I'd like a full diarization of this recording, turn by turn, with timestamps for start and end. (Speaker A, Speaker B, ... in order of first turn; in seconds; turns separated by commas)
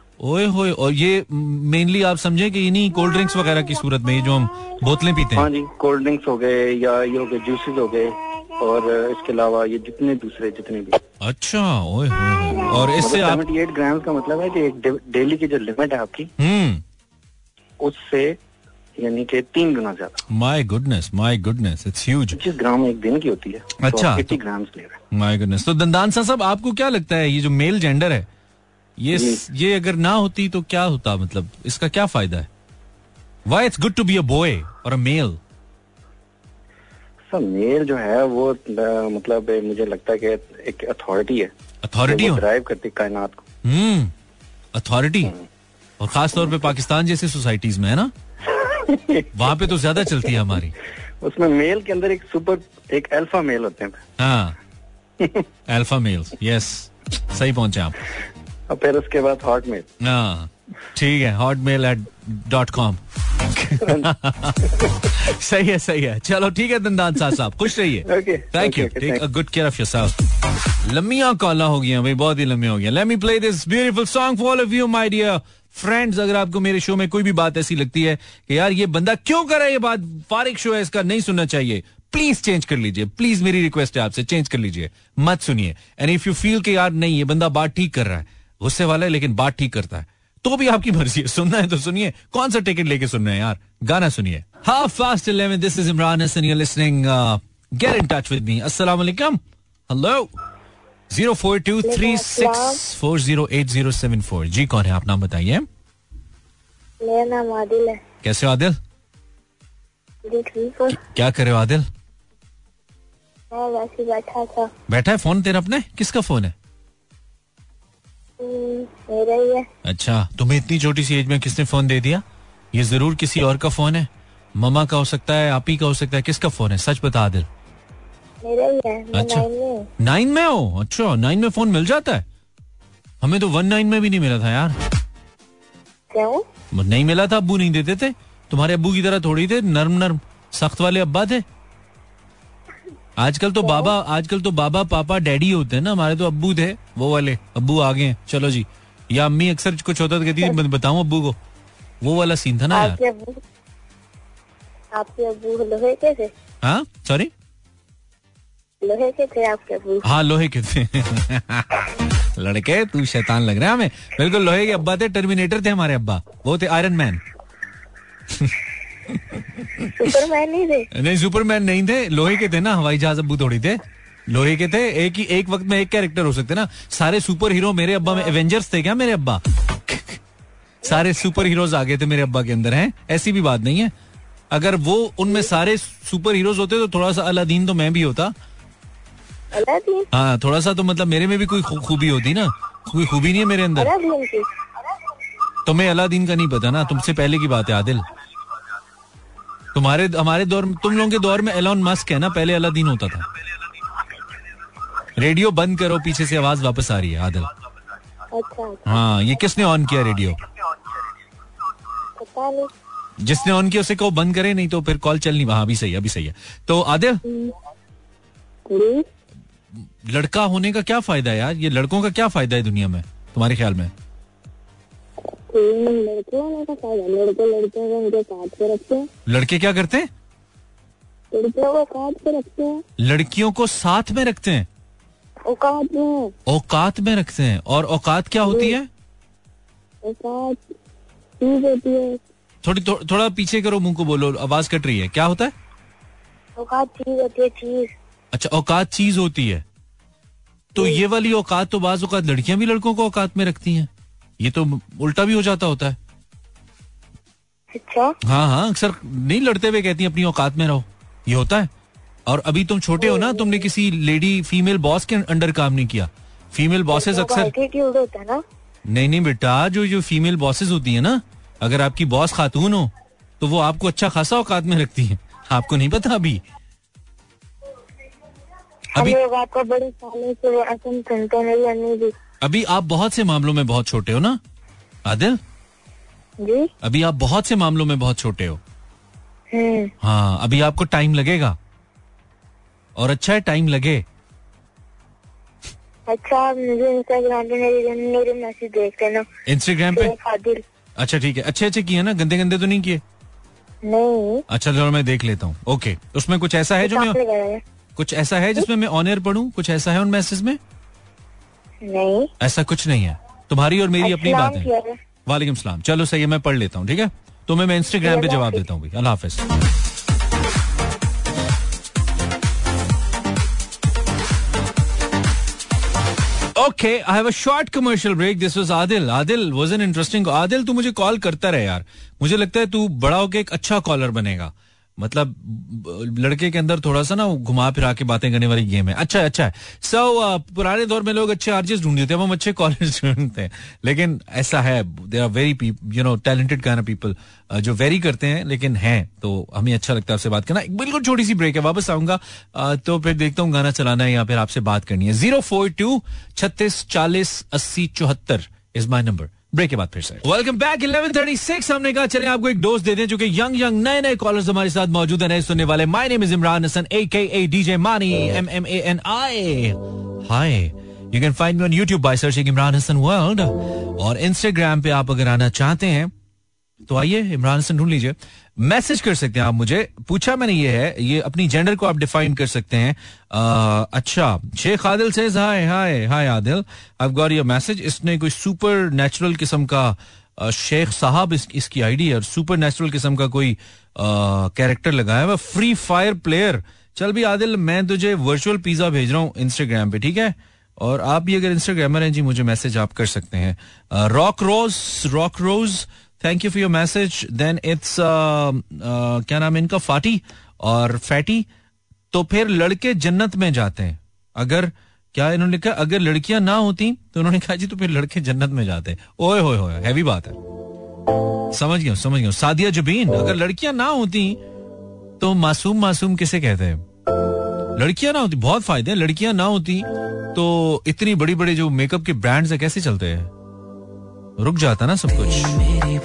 Speaker A: 0.2-5.5, Speaker B: 5.3-11.0, Speaker A: 11.2-13.4, Speaker B: 12.8-16.3, Speaker A: 16.4-16.8, Speaker B: 17.8-18.4, Speaker B: 19.0-20.2, Speaker A: 20.3-22.4, Speaker B: 22.3-25.0, Speaker A: 23.8-24.4, Speaker A: 25.1-28.3, Speaker A: 29.0-32.5, Speaker B: 29.1-29.4, Speaker A: 33.5-35.4, Speaker B: 37.3-41.5, Speaker A: 41.8-42.4, Speaker B: 42.0-43.4, Speaker A: 43.6-44.1, Speaker A: 44.7-45.3, Speaker A: 46.0-48.1, Speaker B: 48.7-49.3, Speaker A: 49.3-50.7, Speaker B: 50.0-50.5, Speaker B: 51.2-54.0, Speaker A: 54.2-54.5, Speaker A: 55.7-58.0, Speaker B: 58.7-59.9, Speaker A: 60.0-63.0, Speaker A: 63.5-70.1, Speaker B: 68.0-69.2, Speaker A: 70.8-100.3, Speaker A: 101.1-105.7, Speaker C: 101.8-102.8, Speaker C: 107.0-108.0, Speaker A: 108.2-108.8, Speaker C: 110.2-111.0, Speaker A: 110.9-111.9, Speaker C: 113.5-114.7, Speaker A: 114.9-116.5, Speaker C: 118.4-119.7, Speaker A: 119.8-127.5, Speaker C: 128.4-129.9, Speaker A: 129.1-129.5, Speaker A: 130.0-132.2, Speaker A: 133.2-134.8, Speaker C: 136.1-136.4, Speaker A: 136.7-141.4, Speaker A: 143.2-151.3, Speaker C: 143.6-143.9, Speaker A: 152.0-153.0, Speaker C: 152.7-153.4, Speaker C: 154.9-156.3, Speaker A: 156.6-157.3, Speaker C: 158.8-160.1, Speaker A: 160.0-167.2, Speaker A: 169.1-170.1, Speaker C: 170.0-170.9, Speaker A: 170.9-180.2, Speaker A: 180.8-183.9, Speaker A: 184.5-188.3, Speaker C: 189.5-190.1, Speaker A: 190.1-193.9, Speaker C: 193.8-194.5, Speaker A: 195.6-198.0, Speaker A: 199.7-203.2, Speaker A: 205.2-207.5, Speaker C: 208.3-209.0, Speaker A: 208.9-210.4, Speaker C: 212.2-212.7, Speaker A: 213.2-217.2, Speaker C: 217.2-217.5, Speaker C: 218.7-219.0, Speaker A: 219.8-223.9, Speaker C: 225.5-229.1, Speaker A: 229.3-230.1, Speaker C: 231.3-232.8, Speaker A: 233.0-234.7, Speaker C: 235.5-236.3, Speaker A: 236.5-238.9, Speaker C: 238.4-238.8, Speaker C: 240.0-240.6, Speaker C: 241.4-242.2, Speaker A: 242.6-245.5, Speaker C: 246.6-247.9, Speaker A: 248.3-249.6, Speaker A: 250.7-253.9, Speaker C: 250.8-251.0, Speaker A: 254.4-256.0, Speaker C: 257.7-258.1, Speaker A: 258.2-261.7, Speaker A: 262.3-267.5, Speaker C: 263.0-263.5, Speaker C: 266.9-268.4, Speaker A: 268.9-276.4, Speaker C: 278.9-282.1, Speaker A: 282.4-284.4, Speaker A: 285.1-285.4, Speaker C: 286.4-286.7, Speaker A: 286.8-288.6, Speaker C: 289.5-289.9, Speaker A: 290.0-291.6, Speaker A: 292.9-294.0, Speaker C: 296.1-299.2, Speaker A: 299.5-300.1, Speaker C: 299.9-300.6, Speaker A: 301.0-303.0, Speaker C: 303.8-304.4, Speaker A: 304.5-307.2, Speaker C: 306.8-307.6, Speaker A: 308.0-310.6, Speaker C: 311.8-312.3, Speaker A: 312.4-314.7, Speaker C: 314.0-315.0, Speaker A: 315.2-319.5, Speaker C: 318.0-318.6, Speaker A: 326.5-376.1, Speaker A: 376.9-411.4, Speaker A: 412.1-420.4, Speaker A: 421.5-424.4, Speaker A: 425.2-426.8, Speaker A: 427.8-433.3, Speaker A: 434.4-435.7